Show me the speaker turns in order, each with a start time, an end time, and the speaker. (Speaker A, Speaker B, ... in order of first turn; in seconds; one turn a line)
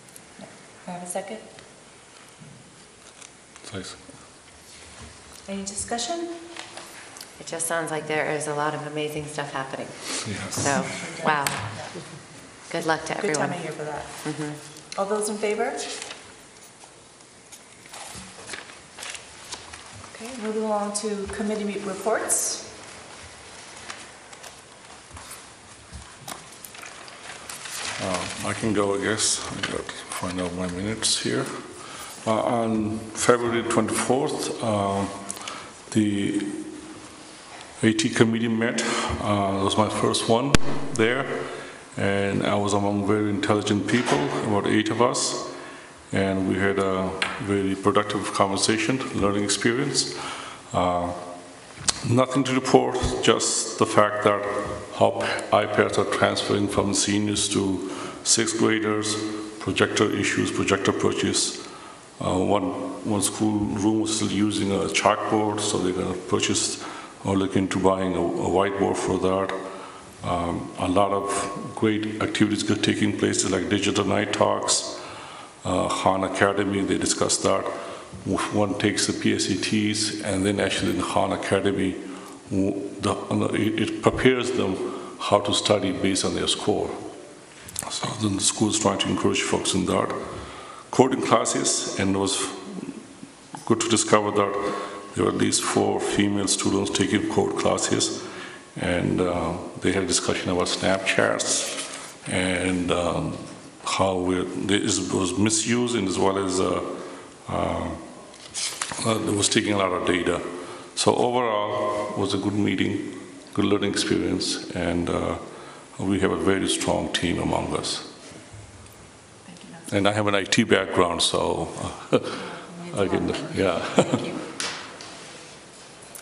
Speaker A: 0.4-1.5
Speaker B: 3.7-4.0
Speaker A: 5.5-6.4
Speaker C: 7.4-12.2
Speaker B: 10.2-10.6
Speaker A: 10.6-12.2
Speaker C: 12.7-13.7
Speaker A: 13.1-14.2
Speaker C: 14.2-14.6
Speaker A: 14.9-15.9
Speaker A: 20.1-22.7
Speaker B: 28.0-31.5
Speaker B: 32.2-35.4
Speaker B: 35.9-36.7
Speaker B: 37.8-45.5
Speaker B: 46.1-51.2
Speaker B: 52.0-61.6
Speaker B: 62.2-69.6
Speaker B: 70.2-75.0
Speaker B: 75.6-87.0
Speaker B: 87.9-90.2
Speaker B: 90.9-92.9
Speaker B: 93.6-98.2
Speaker B: 98.7-108.0
Speaker B: 109.0-115.4
Speaker B: 116.0-118.1
Speaker A: 119.4-120.0
Speaker B: 119.9-124.3
Speaker A: 122.3-124.4